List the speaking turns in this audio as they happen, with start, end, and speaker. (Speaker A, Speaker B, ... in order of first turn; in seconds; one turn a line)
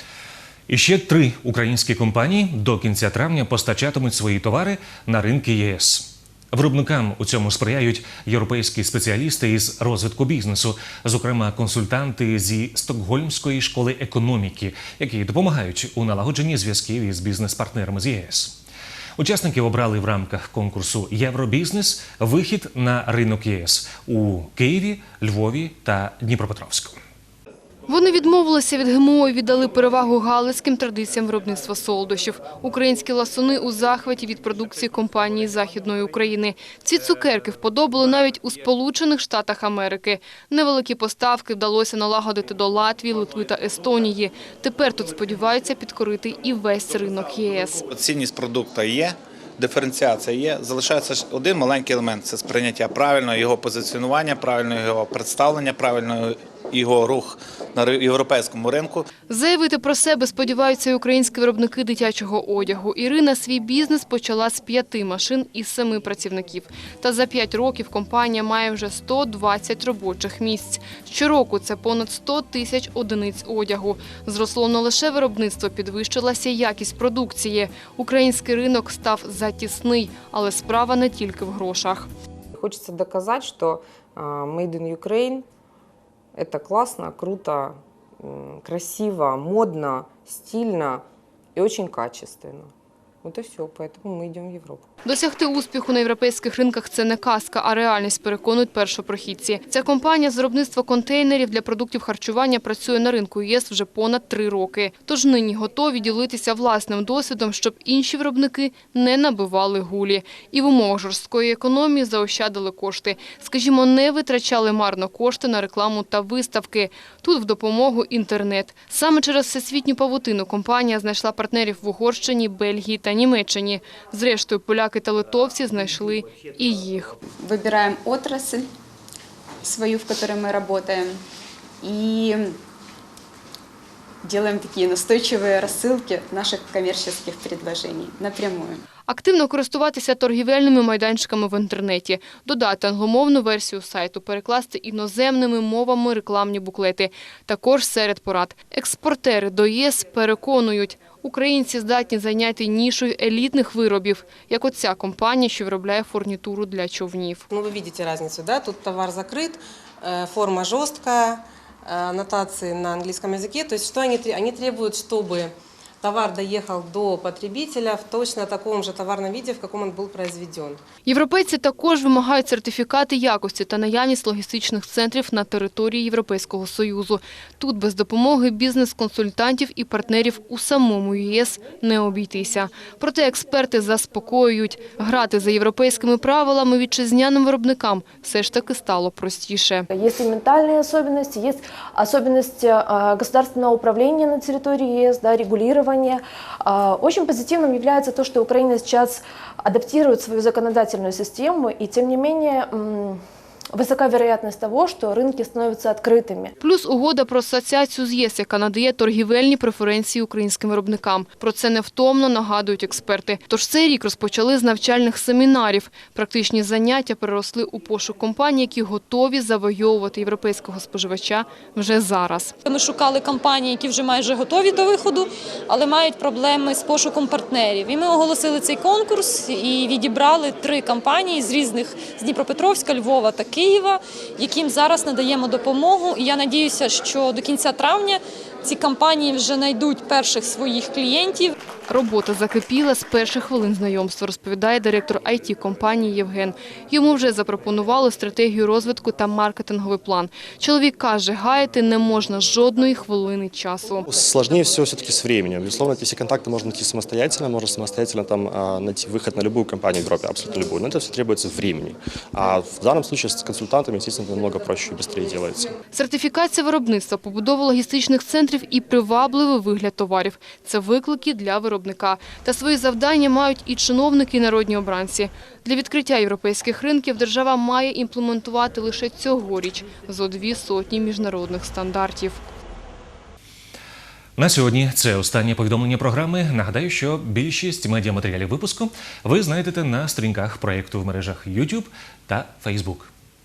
Speaker A: 0.7-18.6
Speaker A: 19.2-27.0
Speaker B: 27.9-47.8
Speaker C: 47.8-59.1
Speaker B: 59.3-82.1
Speaker D: 84.8-85.4
Speaker D: 86.9-87.4
Speaker D: 90.4-90.6
Speaker D: 91.6-92.4
Speaker D: 93.3-94.8
Speaker B: 95.0-127.2
Speaker E: 127.4-128.7
Speaker E: 129.6-131.2
Speaker E: 131.8-132.6
Speaker E: 134.2-138.8
Speaker B: 139.1-157.4
Speaker F: 157.5-161.3
Speaker F: 161.9-165.5
Speaker F: 166.0-170.8
Speaker B: 171.1-189.8
Speaker G: 189.9-203.2
Speaker G: 203.7-206.5
Speaker B: 206.6-222.5
Speaker H: 222.6-241.5
Speaker B: 241.9-254.0
Speaker I: 254.1-265.7
Speaker B: 265.9-282.4
Speaker A: 284.4-293.1